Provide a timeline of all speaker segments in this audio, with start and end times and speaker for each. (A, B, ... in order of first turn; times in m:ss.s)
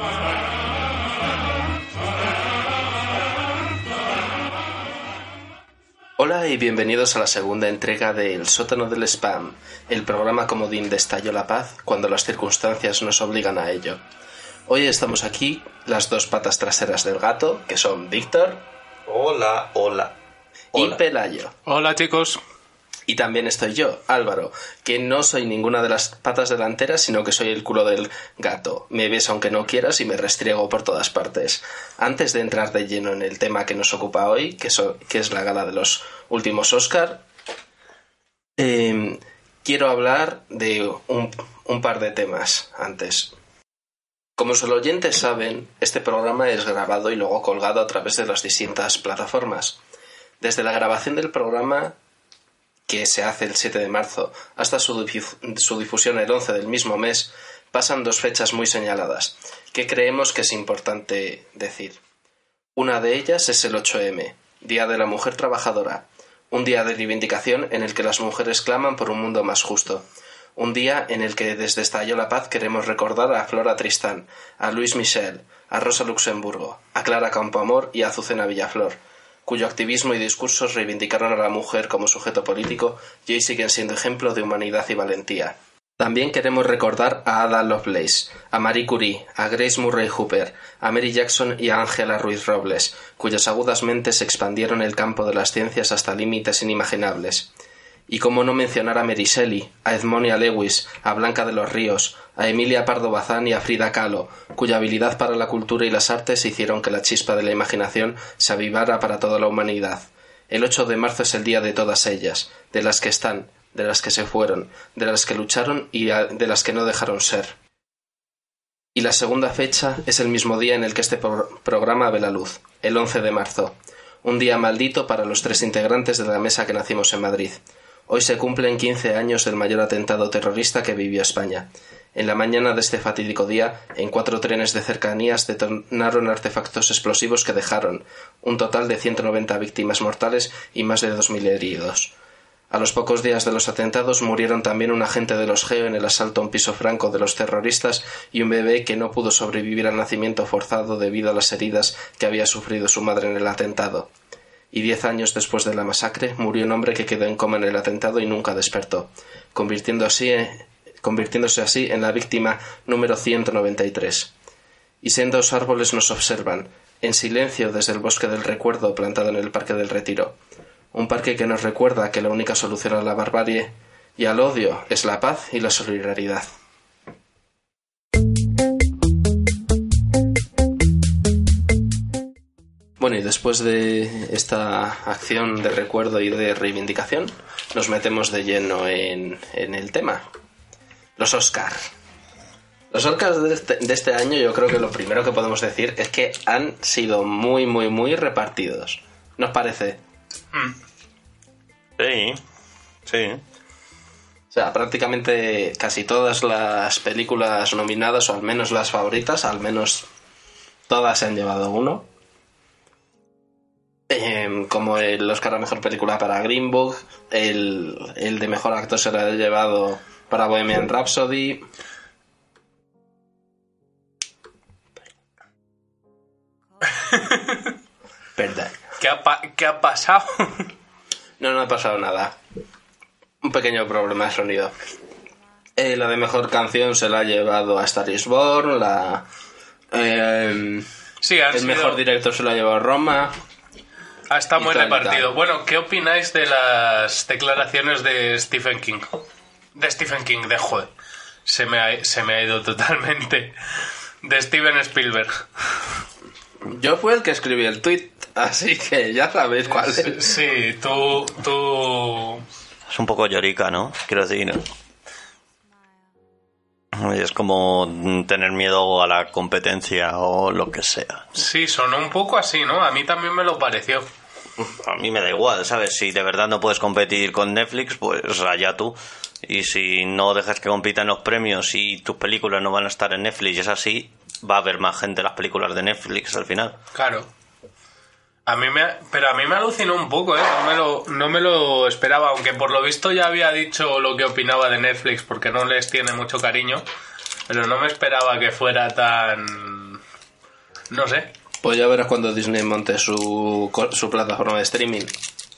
0:06.2-0:14.0 A
0:14.7-0:18.6 A
0:19.1-0:20.1 B
0:20.7-0:21.0 B
0:20.7-0:21.5 A
0:21.7-0:22.4 C
0:23.1-0:37.2 A
0:38.6-0:43.3 A
0:44.4-0:49.8 A
0:50.4-0:51.9 A
0:52.9-1:02.0 A
1:02.8-1:10.0 A
1:10.6-1:37.5 A
1:38.1-1:57.6 A
1:58.9-2:22.1 A
2:22.7-2:34.1 A
2:34.7-2:44.3 A
2:45.0-2:50.4 A
2:50.9-2:56.5 A
3:03.0-3:10.2 A
3:11.2-3:11.9 A
3:12.9-3:20.0 A
3:22.0-3:22.4 B
3:23.1-3:23.4 B
3:24.5-3:30.0 A
3:30.9-3:32.0 A
3:34.1-3:41.6 A
3:47.1-3:47.5 C
3:48.4-3:48.8 A
3:49.0-3:50.7 C
3:51.4-3:52.3 A
3:53.4-3:54.7 A
3:55.8-3:59.2 A
3:59.9-4:00.9 A
4:01.2-4:02.0 C
4:01.5-4:03.3 A
4:04.3-4:09.2 C
4:04.6-4:05.3 A
4:09.7-4:10.9 C
4:11.4-4:13.6 C
4:14.2-4:15.4 C
4:16.6-4:20.3 A
4:19.8-4:22.4 C
4:22.9-4:24.6 B
4:26.9-4:31.4 B
4:31.4-4:34.1 C
4:34.6-4:46.8 B
4:46.9-4:47.3 C
4:48.5-4:56.8 C
4:57.5-5:00.0 C
5:00.9-5:01.3 C
5:01.6-5:05.1 A